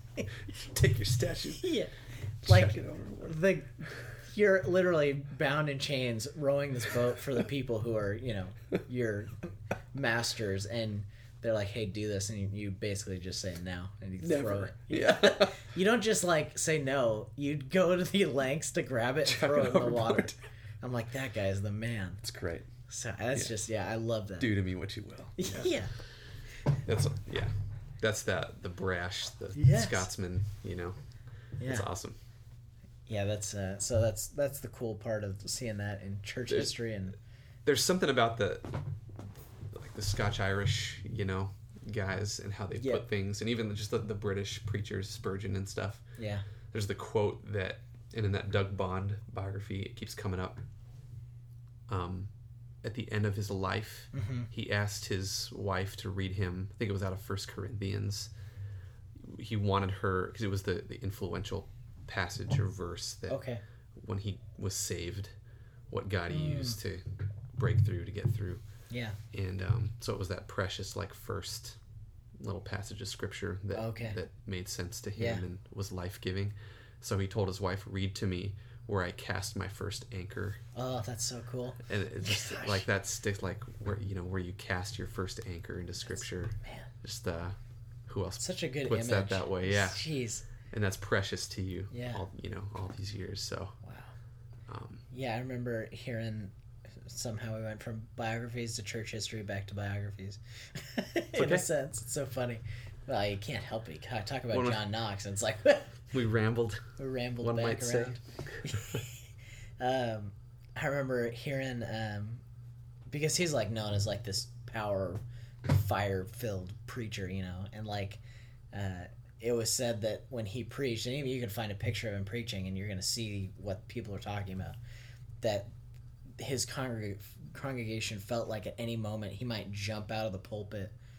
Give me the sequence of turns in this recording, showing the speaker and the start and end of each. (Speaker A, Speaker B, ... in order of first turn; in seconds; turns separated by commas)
Speaker A: 0.5-1.7, Speaker B: 1.6-22.2, Speaker A: 2.4-3.4, Speaker A: 14.2-15.6, Speaker A: 19.3-20.3, Speaker A: 22.2-22.7, Speaker B: 22.9-24.5, Speaker A: 24.4-25.8, Speaker B: 25.4-25.9, Speaker A: 26.7-31.0, Speaker B: 29.5-30.1, Speaker B: 31.6-31.9, Speaker A: 31.6-32.2, Speaker B: 33.1-37.2, Speaker A: 37.6-38.9, Speaker A: 39.7-46.0, Speaker B: 42.8-43.0, Speaker B: 46.2-46.5, Speaker A: 46.7-50.6, Speaker A: 51.9-52.3, Speaker A: 52.8-58.3, Speaker B: 54.1-54.5, Speaker A: 59.2-63.4, Speaker B: 63.3-63.6, Speaker A: 64.0-65.3, Speaker A: 65.9-68.6, Speaker B: 66.3-66.8, Speaker B: 68.9-69.2, Speaker A: 69.3-71.8, Speaker A: 72.4-80.6, Speaker B: 73.7-74.2, Speaker B: 75.2-75.4, Speaker B: 80.7-82.8, Speaker A: 81.8-90.0, Speaker B: 86.2-86.9, Speaker B: 88.4-90.5, Speaker A: 90.7-93.8, Speaker B: 91.9-92.2, Speaker B: 93.8-94.1, Speaker A: 94.7-95.0, Speaker B: 95.1-106.1, Speaker A: 101.3-101.7, Speaker A: 104.5-104.8, Speaker A: 106.1-106.9, Speaker B: 107.0-109.2, Speaker A: 107.4-109.0, Speaker B: 109.8-112.4, Speaker B: 113.1-118.2, Speaker B: 118.7-124.8, Speaker B: 125.4-125.7, Speaker B: 126.4-130.9